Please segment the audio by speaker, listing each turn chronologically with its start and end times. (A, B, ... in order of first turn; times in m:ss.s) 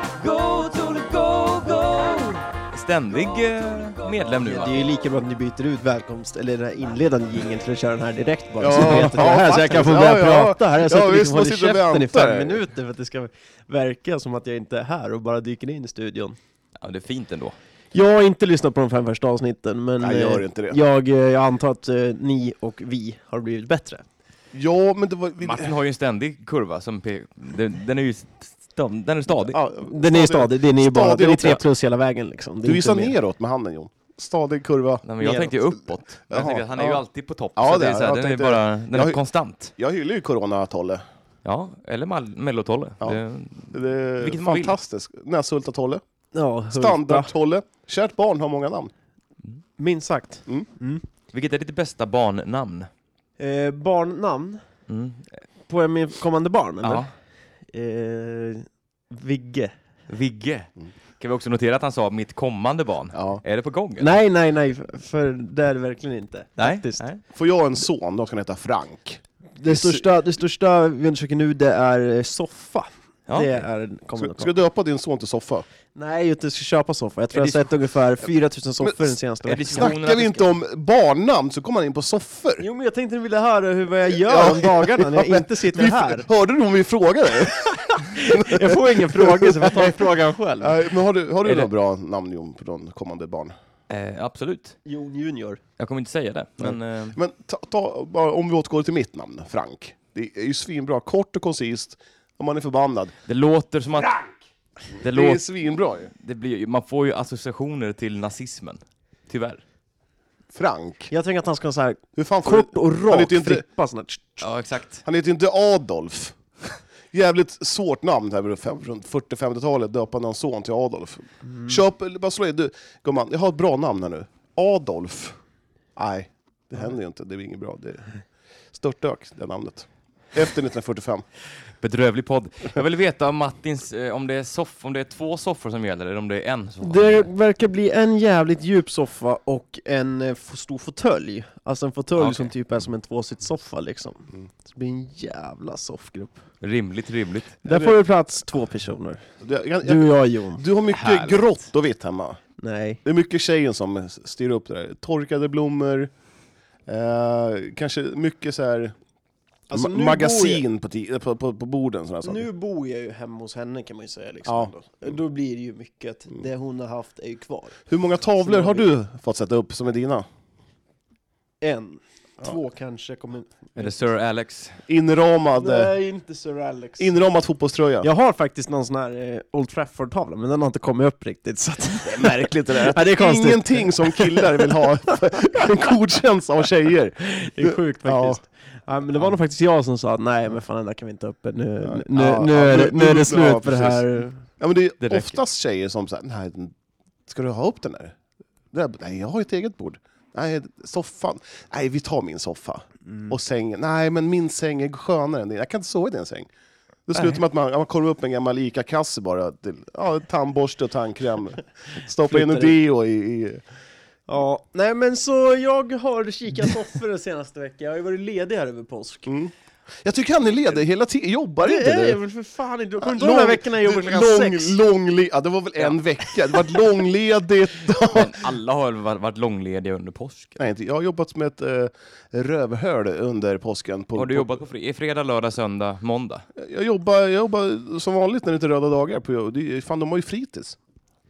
0:00.2-0:04.9 A
0:04.4-0:16.4 B
0:08.6-0:12.6 C
0:16.8-0:17.5 A
0:17.9-0:24.0 B
0:20.0-0:20.8 C
0:24.5-0:25.7 C
0:25.4-0:29.5 A
0:29.5-0:31.6 C
0:29.6-0:33.1 B
0:32.6-0:35.0 C
0:35.0-0:39.7 A
0:35.2-0:35.5 B
0:36.3-0:37.0 C
0:37.6-0:39.2 C
0:39.8-0:41.0 C
0:41.4-0:44.8 A
0:43.7-0:46.0 C
0:46.3-0:47.3 B
0:46.7-0:48.9 C
0:49.8-0:51.0 B
0:51.3-0:52.9 A
0:53.4-0:54.6 B
0:54.9-0:55.4 A
0:55.7-0:57.0 B
0:56.8-0:57.1 A
0:57.7-0:59.7 B
1:00.1-1:04.1 A
1:03.1-1:03.4 C
1:04.0-1:07.0 B
1:06.6-1:07.2 A
1:07.3-1:10.0 C
1:09.6-1:14.5 B
1:13.3-1:13.6 A
1:14.2-1:15.7 C
1:15.9-1:19.9 B
1:17.3-1:17.7 A
1:18.8-1:19.1 C
1:19.4-1:20.5 A
1:19.7-1:22.6 C
1:22.6-1:26.3 B
1:24.1-1:29.9 C
1:28.1-1:30.8 B
1:30.6-1:33.5 C
1:33.9-1:34.8 A
1:34.8-1:35.6 B
1:35.8-1:37.2 A
1:37.1-1:43.1 C
1:43.3-1:44.2 A
1:45.0-1:45.5 A
1:45.0-1:46.1 C
1:46.1-1:49.6 A
1:50.5-1:51.1 C
1:51.1-1:54.5 B
1:52.2-1:53.6 C
1:54.4-1:55.0 A
1:55.0-1:56.4 C
1:57.1-2:05.4 C
2:01.4-2:01.8 B
2:06.0-2:08.1 C
2:08.7-2:11.2 C
2:11.8-2:17.3 A
2:16.8-2:26.4 B
2:22.2-2:22.5 A
2:26.6-2:27.6 A
2:27.6-2:28.0 C
2:27.6-2:29.3 B
2:29.4-2:32.4 C
2:29.8-2:30.6 B
2:30.9-2:31.6 A
2:32.6-2:33.0 B
2:33.0-2:36.1 C
2:36.9-2:38.9 C
2:39.7-2:40.6 B
2:39.7-2:42.5 C
2:42.2-2:47.8 B
2:44.4-2:45.1 C
2:47.9-2:50.2 C
2:48.4-2:48.9 B
2:51.6-2:53.9 B
2:53.8-2:54.8 A
2:54.9-2:55.9 C
2:55.6-2:57.1 B
2:57.0-2:58.1 C
2:58.0-3:04.7 B
3:02.0-3:08.4 C
3:07.4-3:14.4 B
3:11.8-3:16.7 C
3:15.0-3:15.4 A
3:17.3-3:18.1 C
3:18.7-3:26.5 C
3:23.0-3:23.3 B
3:27.1-3:33.6 C
3:32.2-3:32.7 B
3:34.3-3:39.3 B
3:39.3-3:42.2 C
3:41.6-3:44.8 B
3:43.0-3:48.5 C
3:48.1-3:50.6 A
3:50.6-3:54.6 C
3:54.2-3:56.4 A
3:56.6-4:00.8 C